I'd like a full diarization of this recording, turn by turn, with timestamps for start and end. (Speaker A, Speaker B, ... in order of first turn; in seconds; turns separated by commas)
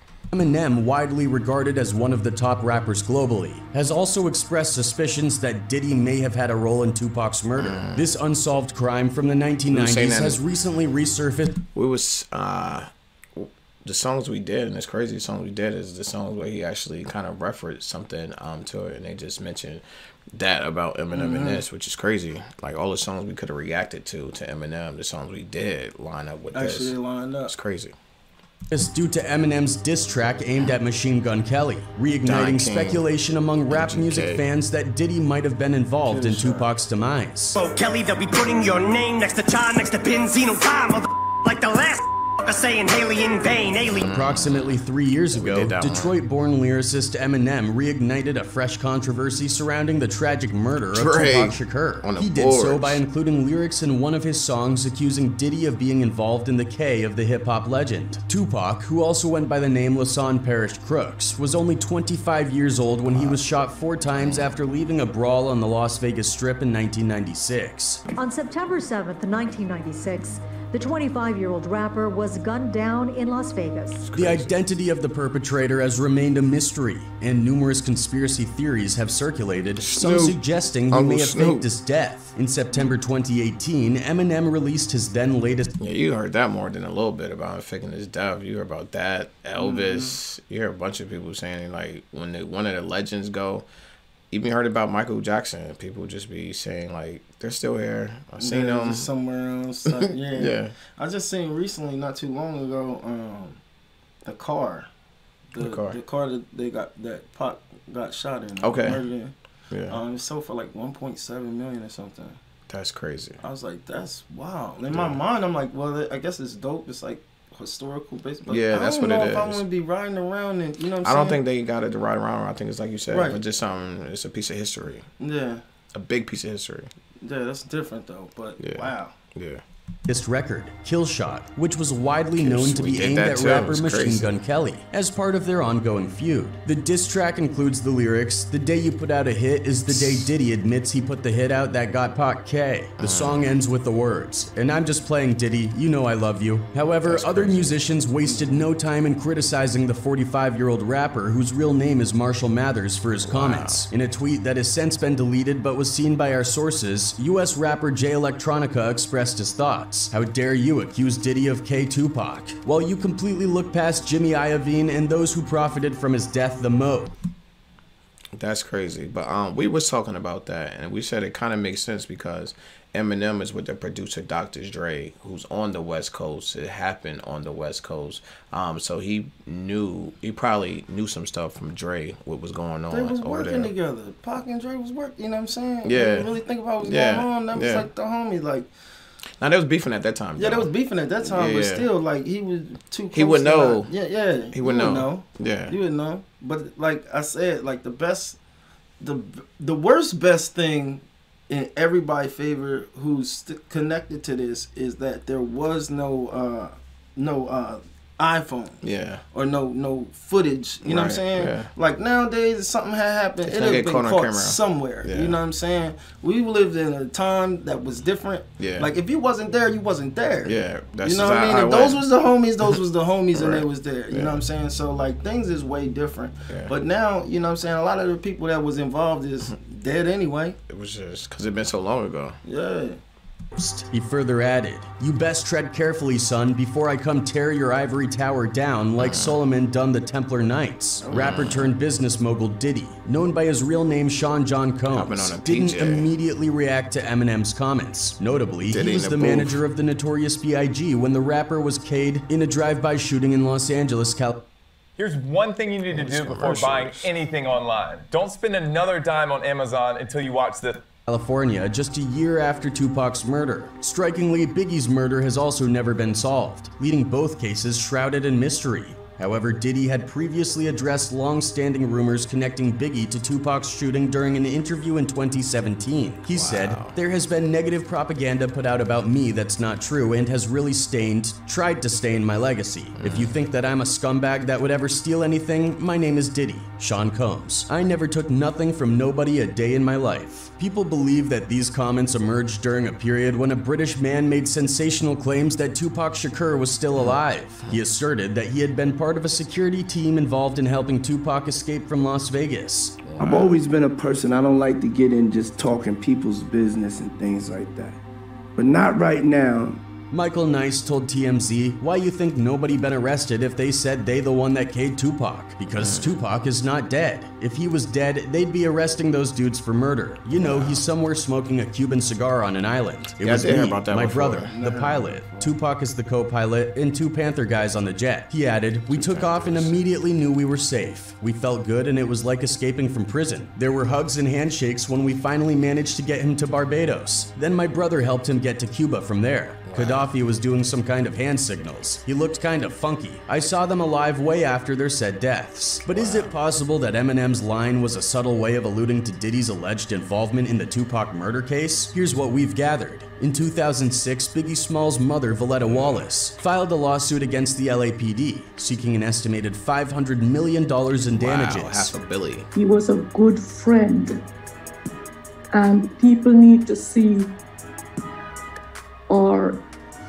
Speaker A: 0.3-11.6, Speaker B: 7.6-8.1, Speaker B: 9.7-10.4, Speaker B: 11.7-27.9, Speaker C: 21.1-21.6, Speaker C: 26.5-27.6, Speaker A: 28.7-37.6, Speaker B: 32.2-33.1, Speaker B: 33.7-34.5, Speaker C: 36.1-36.7, Speaker D: 37.5-44.1, Speaker B: 44.0-44.8, Speaker A: 44.0-68.0, Speaker B: 45.3-46.1, Speaker B: 50.9-53.0, Speaker B: 63.1-63.4, Speaker B: 64.2-64.5, Speaker E: 68.2-74.0, Speaker B: 74.0-74.5, Speaker A: 74.1-85.7, Speaker B: 79.8-80.4, Speaker B: 80.9-81.7, Speaker B: 85.8-93.7, Speaker C: 89.6-90.2, Speaker B: 94.3-99.1, Speaker C: 98.4-103.6, Speaker B: 99.9-100.8, Speaker C: 104.2-104.9, Speaker C: 105.5-109.3, Speaker B: 105.6-106.0, Speaker B: 108.6-109.1, Speaker B: 109.7-110.0, Speaker C: 109.9-112.4, Speaker B: 112.7-113.4, Speaker C: 113.4-121.4, Speaker B: 114.9-115.2, Speaker B: 118.5-119.6, Speaker B: 121.0-125.1, Speaker C: 123.1-123.4, Speaker C: 125.2-125.6, Speaker B: 125.9-126.9, Speaker C: 127.2-129.1, Speaker B: 128.6-129.6, Speaker A: 130.1-167.1, Speaker B: 132.4-134.3, Speaker B: 139.9-140.2, Speaker B: 143.0-143.6, Speaker B: 147.0-147.8, Speaker C: 148.3-148.6, Speaker B: 153.2-153.8, Speaker B: 168.3-183.7, Speaker C: 182.9-188.7, Speaker B: 185.8-187.9, Speaker B: 189.4-191.9, Speaker C: 190.4-198.4, Speaker B: 193.1-193.9, Speaker B: 194.5-195.8, Speaker C: 199.0-208.8, Speaker B: 208.8-209.2, Speaker C: 209.3-230.6, Speaker B: 210.8-211.7, Speaker B: 213.4-215.4, Speaker B: 218.6-218.9, Speaker B: 220.4-222.1, Speaker B: 223.3-224.4, Speaker B: 230.7-232.4, Speaker C: 232.4-233.0, Speaker A: 233.6-254.5, Speaker B: 239.0-239.4, Speaker C: 241.0-241.5, Speaker B: 241.1-241.7, Speaker B: 244.9-246.1, Speaker B: 248.7-249.6, Speaker F: 255.0-260.8, Speaker B: 255.8-257.1, Speaker A: 261.1-303.0, Speaker B: 276.3-277.0, Speaker B: 283.0-283.4, Speaker B: 297.0-297.8, Speaker B: 303.0-303.6, Speaker G: 303.2-308.0, Speaker G: 308.6-309.8, Speaker A: 310.1-361.9, Speaker B: 315.8-316.2, Speaker B: 320.4-320.9, Speaker B: 323.2-324.5, Speaker C: 324.5-325.5, Speaker B: 328.9-329.8, Speaker B: 339.7-340.1, Speaker B: 345.9-346.3, Speaker B: 355.6-356.1, Speaker B: 361.1-362.5, Speaker H: 362.5-364.2, Speaker H: 365.5-367.3, Speaker H: 369.1-369.6